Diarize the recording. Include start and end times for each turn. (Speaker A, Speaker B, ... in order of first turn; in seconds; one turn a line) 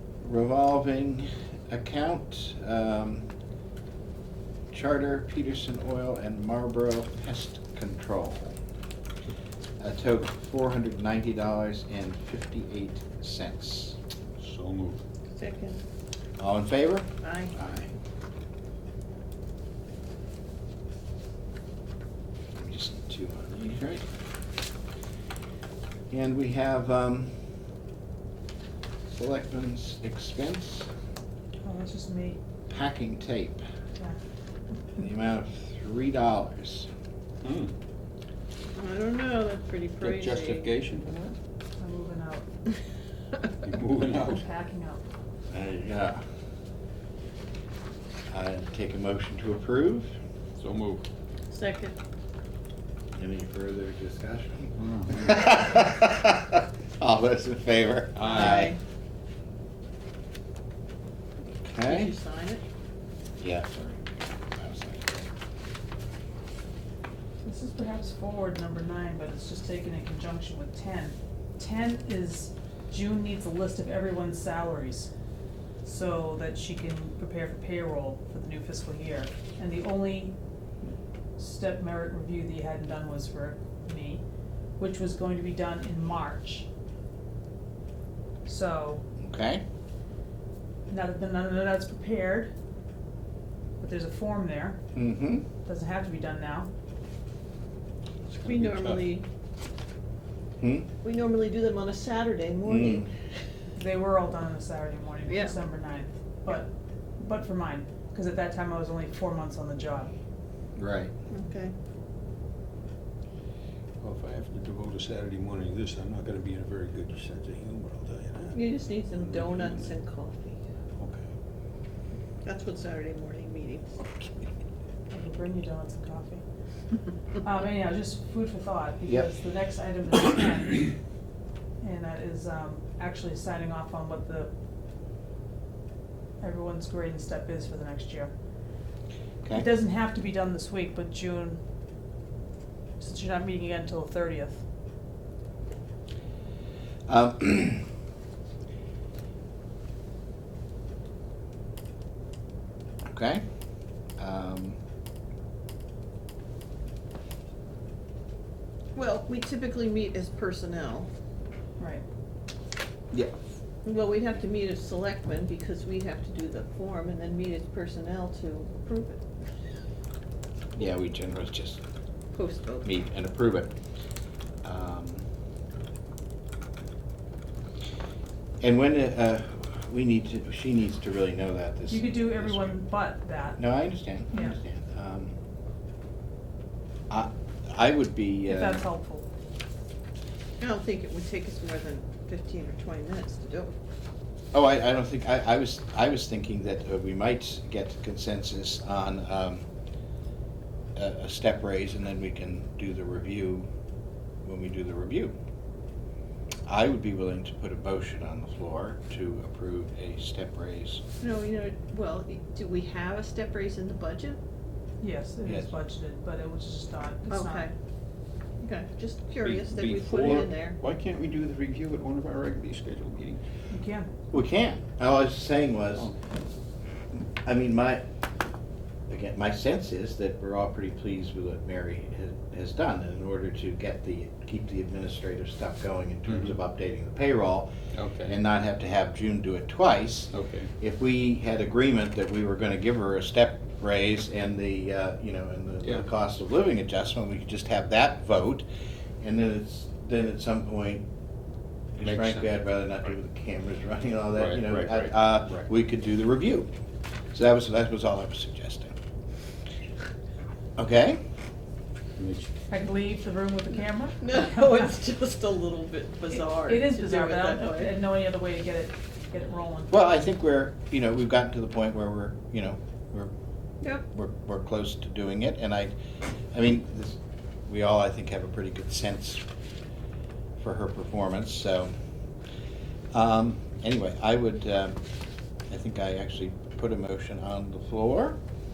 Speaker A: 0.2-3.3
Speaker A: 4.7-8.6
Speaker A: 9.8-14.0
Speaker B: 14.4-15.0
Speaker C: 15.4-15.8
Speaker A: 16.4-17.9
Speaker C: 17.2-17.5
Speaker A: 22.6-24.1
Speaker A: 26.1-27.3
Speaker A: 29.1-30.9
Speaker D: 31.6-32.4
Speaker A: 32.7-33.6
Speaker A: 35.0-36.9
Speaker B: 37.4-37.7
Speaker C: 38.8-40.7
Speaker B: 40.0-41.4
Speaker D: 41.8-42.5
Speaker B: 43.6-44.4
Speaker D: 44.0-45.0
Speaker A: 45.5-46.2
Speaker A: 48.3-50.2
Speaker B: 50.6-51.0
Speaker C: 51.5-52.0
Speaker A: 53.1-58.7
Speaker B: 54.8-55.5
Speaker B: 58.2-58.7
Speaker C: 58.3-58.8
Speaker A: 61.6-62.1
Speaker C: 61.8-62.6
Speaker A: 63.4-64.0
Speaker A: 64.5-65.3
Speaker D: 67.4-75.1
Speaker D: 75.8-80.3
Speaker D: 81.4-84.2
Speaker D: 84.8-86.7
Speaker D: 88.5-89.0
Speaker A: 89.2-89.6
Speaker D: 90.9-92.5
Speaker D: 93.8-94.8
Speaker A: 94.9-95.5
Speaker D: 95.7-96.7
Speaker B: 98.3-99.2
Speaker C: 98.4-99.3
Speaker A: 100.6-100.9
Speaker C: 101.0-103.1
Speaker A: 102.7-103.1
Speaker D: 103.8-110.1
Speaker C: 105.3-105.6
Speaker A: 110.8-111.1
Speaker C: 111.3-111.7
Speaker B: 114.0-120.0
Speaker C: 118.5-120.6
Speaker B: 121.0-121.3
Speaker C: 122.4-124.0
Speaker D: 125.1-126.4
Speaker D: 127.4-130.9
Speaker D: 131.8-134.5
Speaker D: 136.4-138.3
Speaker D: 139.5-141.6
Speaker D: 143.0-144.6
Speaker A: 147.1-147.8
Speaker A: 153.1-153.4
Speaker A: 154.2-154.8
Speaker C: 159.0-161.1
Speaker D: 161.8-162.0
Speaker C: 163.8-169.2
Speaker A: 170.8-171.8
Speaker C: 172.3-172.9
Speaker A: 172.8-173.7
Speaker A: 174.6-175.3
Speaker A: 178.6-182.8
Speaker D: 181.9-183.6
Speaker A: 183.6-185.4
Speaker A: 187.1-188.8
Speaker D: 188.5-189.3
Speaker C: 190.6-193.7
Speaker A: 194.5-199.7
Speaker A: 200.9-203.7
Speaker A: 204.4-205.4
Speaker A: 206.7-211.0
Speaker C: 211.2-214.4
Speaker D: 215.0-217.7
Speaker C: 217.3-217.7
Speaker C: 218.6-220.8
Speaker B: 219.4-223.4
Speaker D: 223.7-224.1
Speaker A: 224.3-226.1
Speaker A: 227.4-228.0
Speaker A: 229.1-237.7
Speaker B: 236.3-236.6
Speaker B: 237.9-238.4
Speaker A: 238.2-248.7
Speaker B: 240.3-240.7
Speaker A: 249.2-251.1
Speaker A: 252.0-256.7
Speaker B: 252.0-252.5
Speaker B: 254.4-255.7
Speaker A: 257.3-258.9
Speaker A: 260.8-261.2
Speaker B: 262.2-262.5
Speaker D: 262.7-264.9
Speaker C: 264.2-268.0
Speaker D: 266.3-270.1
Speaker A: 269.9-273.3
Speaker A: 274.1-275.9
Speaker A: 276.5-279.4
Speaker A: 280.6-281.9
Speaker A: 283.1-285.0
Speaker A: 285.7-288.4